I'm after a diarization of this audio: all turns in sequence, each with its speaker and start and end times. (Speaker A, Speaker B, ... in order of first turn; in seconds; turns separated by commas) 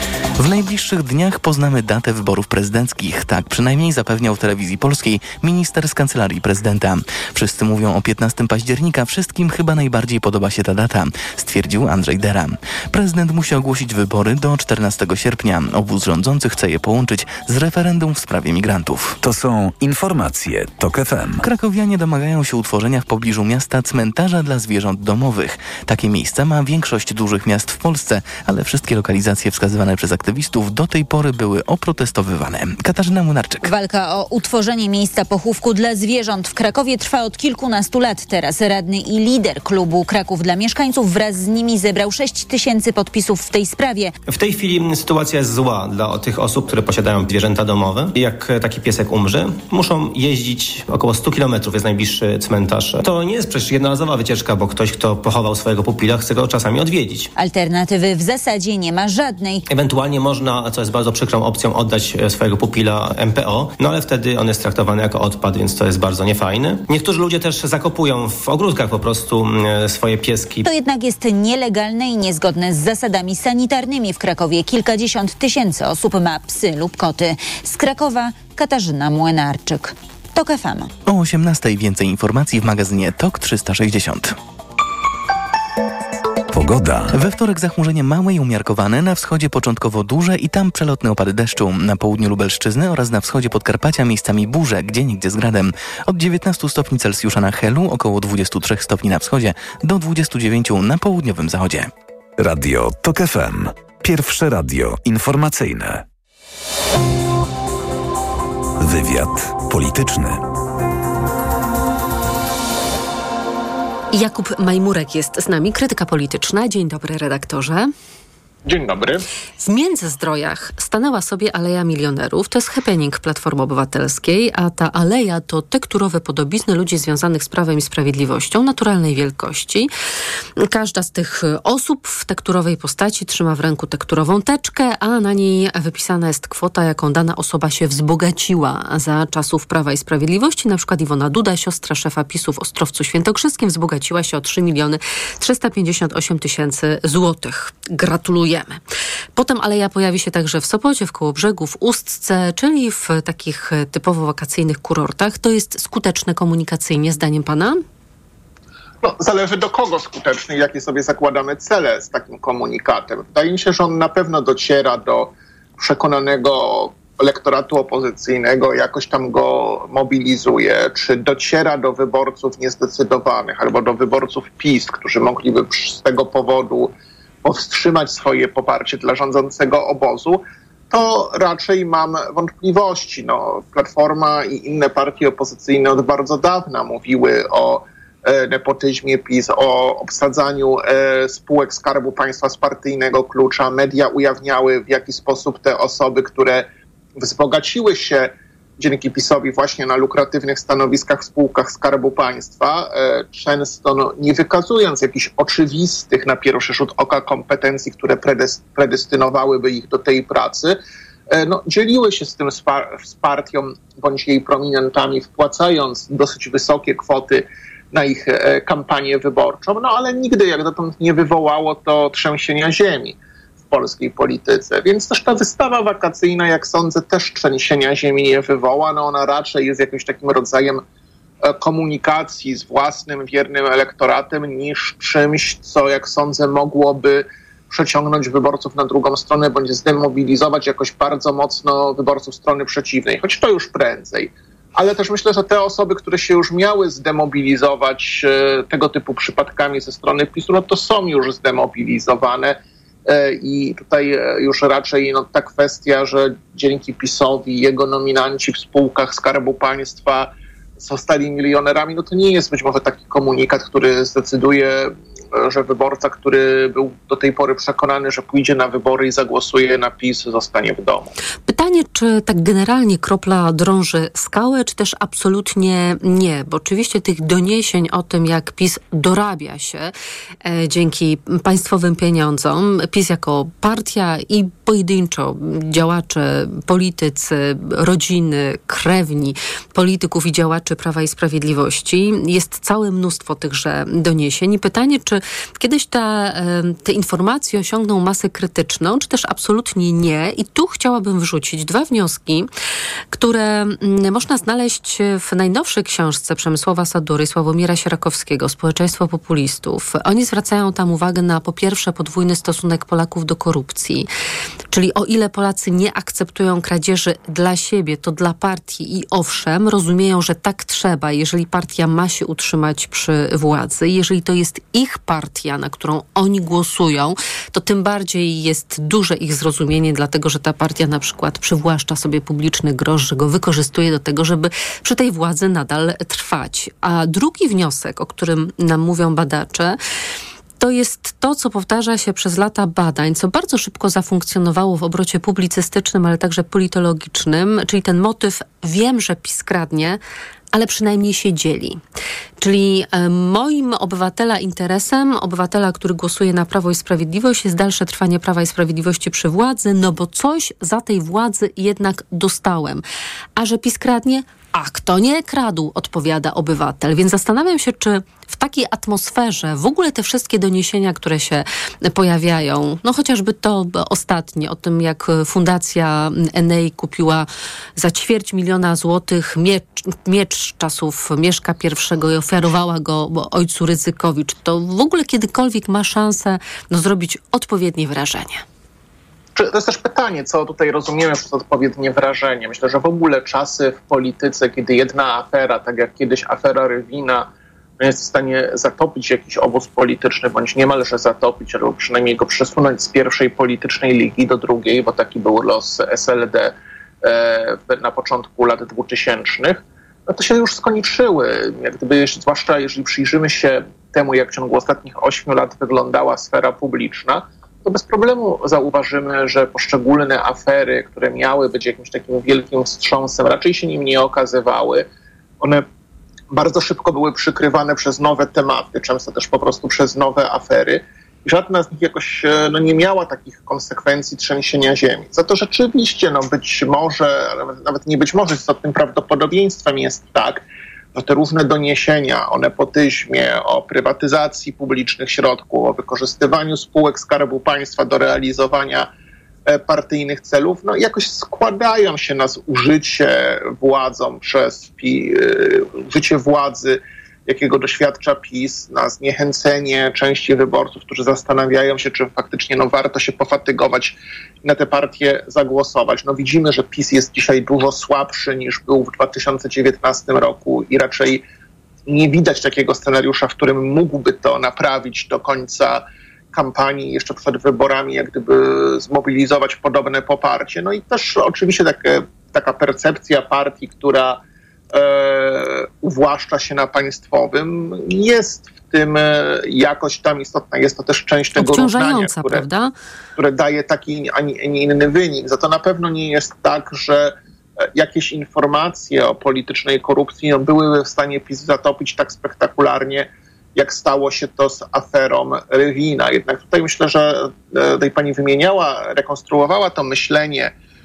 Speaker A: 0.4-19.2, Speaker B: 19.2-21.4, Speaker A: 21.4-33.7, Speaker C: 33.6-44.1, Speaker D: 44.3-57.3, Speaker C: 57.4-59.6, Speaker D: 59.7-70.7, Speaker C: 70.7-80.9, Speaker A: 81.1-84.3, Speaker B: 86.5-87.1, Speaker A: 87.1-101.9, Speaker B: 102.4-106.0, Speaker B: 108.8-110.4, Speaker E: 114.1-117.9, Speaker F: 118.7-119.2, Speaker E: 119.6-129.9, Speaker E: 130.6-148.8, Speaker E: 149.4-157.8, Speaker F: 159.0-176.9, Speaker F: 177.4-196.7, Speaker F: 197.2-210.8, Speaker F: 211.3-223.2, Speaker F: 223.7-230.8, Speaker F: 231.4-271.1, Speaker E: 271.5-279.9, Speaker E: 280.4-302.5, Speaker E: 303.1-314.1, Speaker E: 314.7-339.8, Speaker E: 340.6-350.0, Speaker E: 350.5-351.8, Speaker E: 352.4-362.8, Speaker E: 363.4-388.4, Speaker F: 389.4-397.3, Speaker F: 397.8-424.9, Speaker F: 426.3-440.4, Speaker F: 440.9-448.9, Speaker F: 449.5-471.2, Speaker F: 471.9-475.8, Speaker F: 476.3-484.2, Speaker F: 484.7-492.4, Speaker E: 491.4-492.7, Speaker F: 493.2-497.1, Speaker F: 497.8-510.5